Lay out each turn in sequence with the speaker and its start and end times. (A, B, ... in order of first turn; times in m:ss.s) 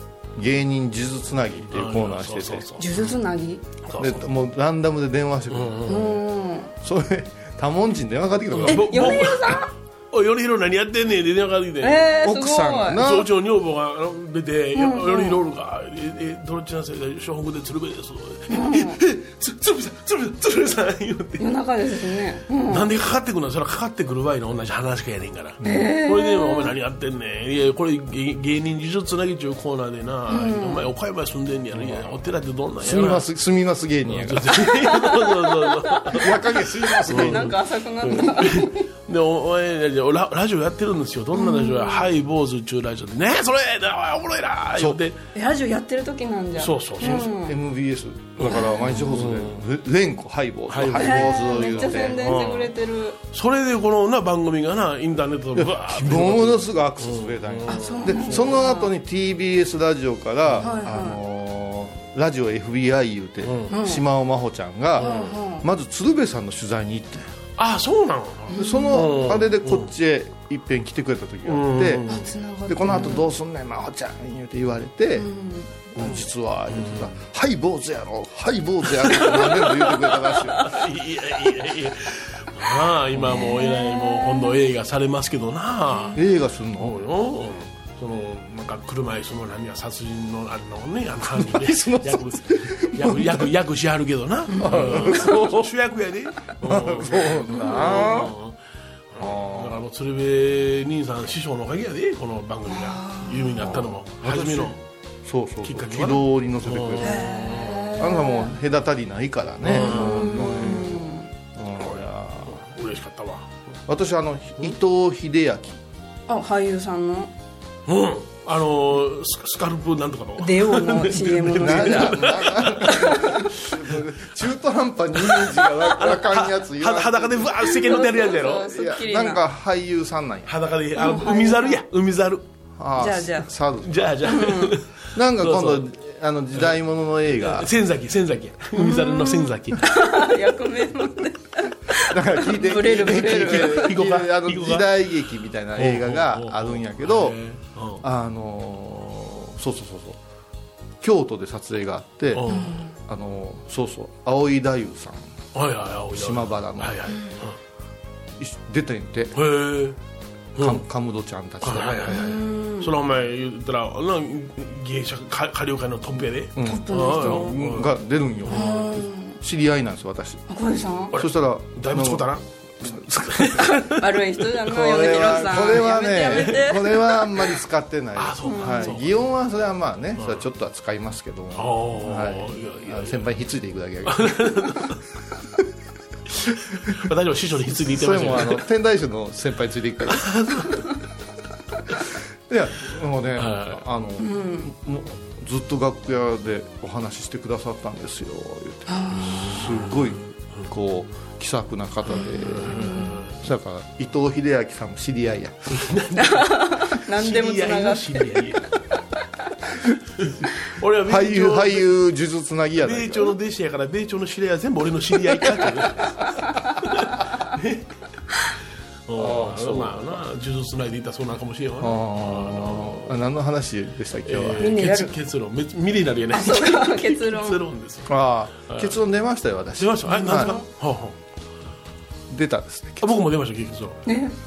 0:00.4-0:02.7 A
0:01.7-0:03.0 B
0:02.8-0:03.6 C
0:03.9-0:04.3 B
0:04.0-0:05.9 A
0:05.5-0:06.2 B
0:05.9-0:06.7 C
0:06.8-0:09.2 A
0:08.5-0:12.1 B
0:08.7-0:09.7 C
0:11.8-0:13.0 C
0:12.2-0:13.3 A
0:13.0-0:21.5 B
0:14.8-0:15.4 C
0:18.5-0:19.0 C
0:21.4-0:22.9 C
0:22.7-0:33.3 B
0:25.6-0:25.9 A
0:25.6-0:26.7 C
0:30.3-0:30.9 C
0:31.7-0:32.2 A
0:32.8-0:34.7 A
0:34.1-0:36.3 B
0:34.8-0:36.2 C
0:36.1-0:37.5 A
0:37.0-0:38.9 C
0:37.1-0:45.2 B
0:41.4-0:42.1 C
0:45.3-0:47.6 C
0:46.6-0:47.3 B
0:47.0-0:52.2 A
0:48.4-0:49.6 B
0:48.5-0:49.1 C
0:50.7-0:52.8 B
0:51.0-0:53.2 C
0:53.3-0:58.6 B
0:55.6-1:07.3 A
0:57.7-0:58.9 C
1:00.6-1:01.2 C
1:03.4-1:03.8 B
1:03.7-1:04.0 C
1:05.0-1:05.3 B
1:05.0-1:05.7 C
1:07.6-1:09.9 B
1:08.5-1:09.1 C
1:08.6-1:12.0 A
1:11.5-1:12.3 B
1:12.1-1:13.2 C
1:12.7-1:15.3 A
1:15.2-1:15.7 C
1:15.9-1:20.8 A
1:16.0-1:17.1 B
1:19.0-1:19.9 B
1:20.6-1:26.2 B
1:23.3-1:24.6 C
1:26.2-1:27.1 A
1:26.8-1:38.6 B
1:31.3-1:33.5 A
1:34.5-1:35.2 C
1:34.6-1:35.6 A
1:36.6-1:38.3 A
1:37.6-1:37.9 C
1:39.1-1:44.8 B
1:39.2-1:39.8 A
1:42.7-1:43.7 C
1:43.6-1:44.7 A
1:45.2-1:47.4 A
1:45.6-1:48.0 B
1:47.0-1:48.5 C
1:48.0-1:52.6 A
1:49.6-1:50.9 B
1:49.7-1:51.3 C
1:51.8-1:53.5 B
1:53.9-1:55.8 A
1:56.3-1:57.3 C
1:57.9-2:04.0 B
2:00.4-2:03.4 C
2:01.6-2:07.7 A
2:05.2-2:08.8 B
2:07.8-2:09.4 C
2:08.5-2:10.6 A
2:10.5-2:12.4 B
2:11.0-2:11.8 C
2:12.8-2:14.0 A
2:13.0-2:13.5 C
2:13.8-2:15.9 B
2:14.2-2:14.8 C
2:15.2-2:17.7 A
2:17.4-2:19.8 B
2:18.8-2:23.9 C
2:22.1-2:27.4 A
2:23.2-2:25.1 B
2:25.8-2:28.0 B
2:28.0-2:30.2 A
2:31.0-2:32.4 A
2:32.3-2:32.8 B
2:32.5-2:32.9 C
2:33.0-2:35.2 A
2:35.6-2:37.6 B
2:36.1-2:37.1 A
2:38.4-2:39.3 A
2:39.4-2:40.0 B
2:40.6-2:40.8 B
2:40.6-2:42.0 A
2:41.6-2:49.0 B
2:42.1-2:42.9 C
2:46.6-2:50.4 A
2:46.6-2:47.6 C
2:48.5-2:49.4 C
2:50.5-2:51.2 C
2:51.1-2:57.4 B
2:51.2-2:52.3 A
2:52.8-2:53.8 A
2:53.8-2:56.9 C
2:54.7-3:04.6 A
2:58.2-2:59.1 B
2:58.5-2:58.9 C
3:00.2-3:00.4 B
3:01.6-3:03.3 B
3:04.0-3:05.0 B
3:06.8-3:08.7 B
3:07.8-3:10.8 A
3:10.1-3:10.9 B
3:12.5-3:25.8 A
3:13.4-3:13.8 B
3:14.2-3:14.7 C
3:18.9-3:19.7 C
3:19.6-3:20.7 B
3:22.2-3:23.2 C
3:22.2-3:23.4 B
3:25.7-3:28.6 B
3:26.2-3:28.4 C
3:30.2-3:31.9 B
3:31.0-3:33.4 A
3:32.8-3:37.9 B
3:39.1-3:43.2 B
3:39.1-3:40.2 A
3:41.8-3:44.8 A
3:44.3-3:49.0 B
3:44.6-3:45.1 C
3:46.3-3:47.6 C
3:48.1-3:50.5 A
3:49.8-3:51.2 B
3:50.1-3:50.6 C
3:52.3-3:53.2 A
3:53.0-3:54.0 B
3:54.1-3:54.3 C